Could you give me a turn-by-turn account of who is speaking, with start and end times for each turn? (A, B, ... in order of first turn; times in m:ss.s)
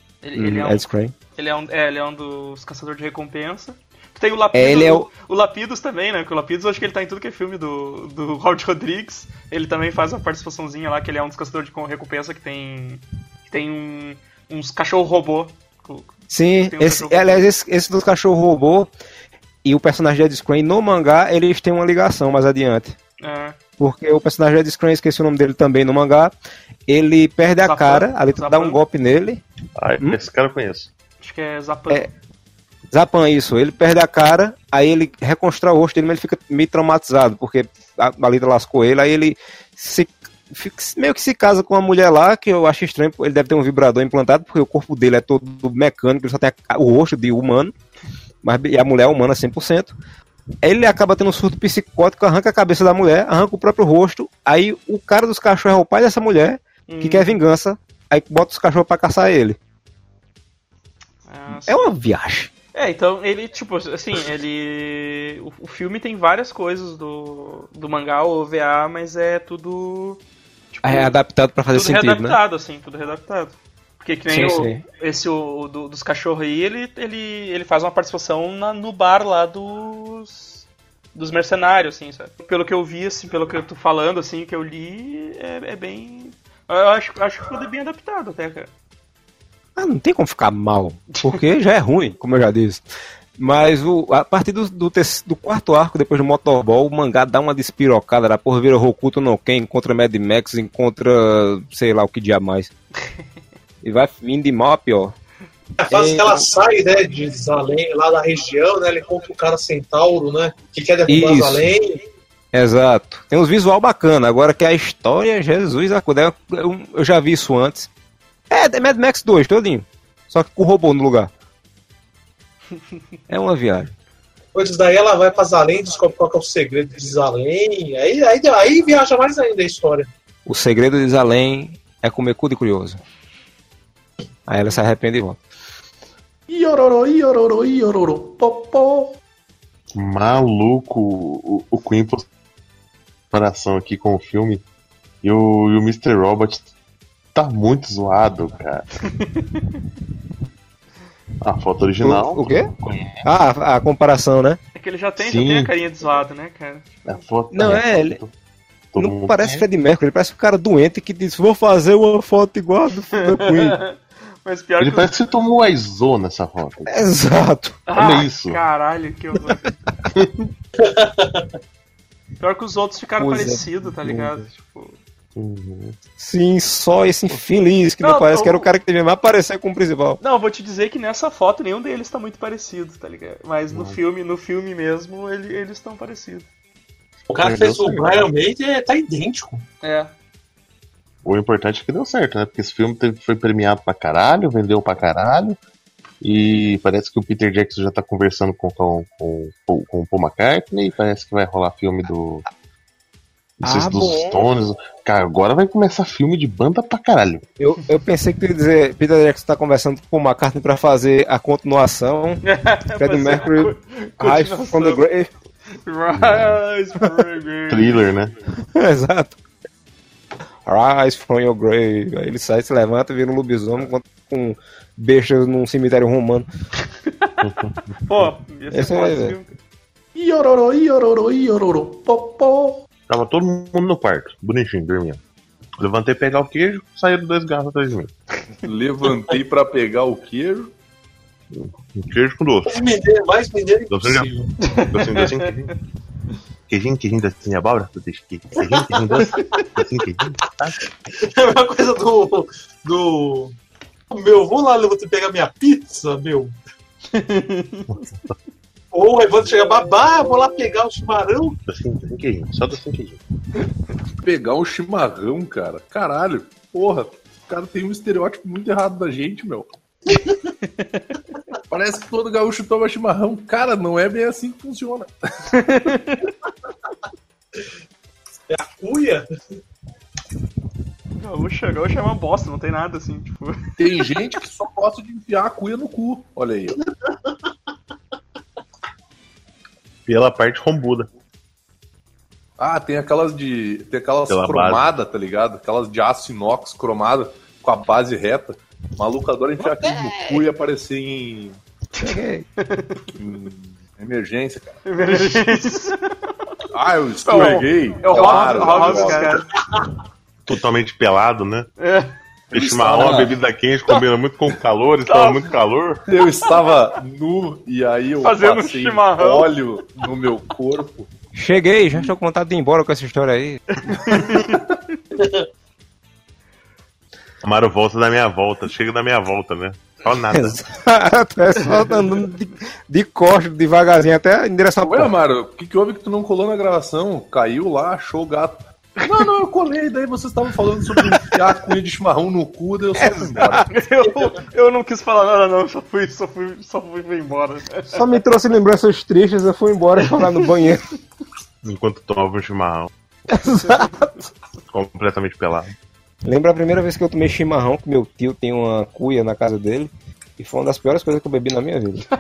0:00.2-0:17.5 A
0:00.4-0:01.1 B
0:04.5-0:05.1 B
0:16.3-0:18.9 B
0:19.6-0:23.0 B
0:23.2-0:23.6 A
0:23.8-0:26.3 B
0:26.9-0:29.4 B
0:27.6-0:28.8 A
0:29.8-0:30.9 C
0:31.2-0:32.1 A
0:32.9-0:47.7 B
0:48.4-0:49.9 B
0:50.6-0:59.6 B
0:56.9-0:57.4 A
1:01.3-1:01.8 A
1:01.6-1:02.5 B
1:02.7-1:10.2 A
1:10.7-1:11.1 A
1:10.8-1:12.4 B
1:11.7-1:28.7 A
1:14.3-1:14.8 B
1:29.8-1:42.7 B
1:31.1-1:31.4 A
1:43.8-1:45.2 B
1:45.8-1:52.0 D
1:45.9-1:46.5 B
1:51.1-1:51.7 B
1:52.5-1:57.9 B
1:58.5-2:01.3 B
2:03.3-2:03.9 B
2:04.5-2:10.1 D
2:10.5-2:13.0 B
2:14.5-2:15.4 B
2:16.5-2:19.1 E
2:20.0-2:22.2 C
2:23.3-2:24.6 C
2:25.2-2:26.7 C
2:27.4-2:28.9 C
2:31.4-2:33.2 C
2:32.0-2:32.7 B
2:33.2-2:34.6 B
2:34.8-2:36.9 A
2:35.2-2:35.7 C
2:37.1-2:38.3 C
2:37.5-2:38.2 B
2:38.9-2:39.6 C
2:39.0-2:43.8 B
2:43.4-2:45.1 A
2:44.8-2:47.0 C
2:46.9-2:47.8 B
2:47.9-2:49.7 A
2:47.9-2:48.6 C
2:50.8-2:51.5 D
2:52.4-2:55.0 A
2:53.2-2:54.4 B
2:55.4-2:56.0 C
2:56.2-3:00.2 B
2:58.0-2:58.7 A
3:00.2-3:06.5 A
3:03.7-3:04.0 C
3:07.3-3:09.6 D
3:07.4-3:08.3 C
3:09.8-3:10.1 A
3:11.2-3:15.6 C
3:16.2-3:22.4 C
3:23.6-3:24.4 B
3:23.6-3:27.4 C
3:27.6-3:32.4 B
3:32.4-3:35.0 A
3:33.0-3:35.3 B
3:35.8-3:38.0 A
3:36.2-3:36.6 C
3:37.7-3:38.3 C
3:38.7-3:39.4 B
3:40.7-3:46.5 B
3:47.4-3:47.8 C
3:48.1-3:49.5 A
3:48.7-3:49.4 B
3:50.2-3:52.8 E
3:53.1-3:55.2 C
3:55.8-3:58.1 C
3:58.6-4:00.7 F
4:01.5-4:02.7 C
4:02.7-4:04.5 D
4:03.9-4:05.7 C
4:04.6-4:05.2 A
4:06.7-4:10.8 C
4:08.7-4:09.6 D
4:11.2-4:13.5 D
4:14.1-4:16.6 D
4:17.1-4:17.9 A
4:18.9-4:21.6 D
4:21.7-4:23.2 C
4:24.2-4:29.7 F
4:31.7-4:35.1 F
4:35.5-4:36.2 A
4:38.5-4:39.2 D
4:41.2-4:43.6 A
4:43.8-4:46.8 F
4:50.1-4:51.1 C
4:52.6-5:01.6 F
4:54.3-4:54.9 C
5:02.0-5:03.1 A
5:02.0-5:02.4 B
5:03.2-5:05.6 F
5:04.9-5:06.1 A
5:06.7-5:09.4 F
5:07.2-5:09.4 A
5:10.5-5:11.7 C
5:11.8-5:12.1 A
5:12.5-5:16.0 C
5:12.5-5:13.3 F
5:15.1-5:15.5 A
5:16.1-5:21.1 F
5:18.2-5:19.5 A
5:21.3-5:23.6 B
5:23.9-5:24.6 A
5:27.4-5:30.6 C
5:30.3-5:35.1 B
5:34.8-5:43.7 F
5:43.0-5:43.6 B
5:43.7-5:48.0 A
5:47.9-5:50.8 B
5:51.6-5:52.9 C
5:53.3-5:53.9 B
5:53.4-5:54.1 A
5:54.7-5:55.7 C
5:56.2-6:02.0 B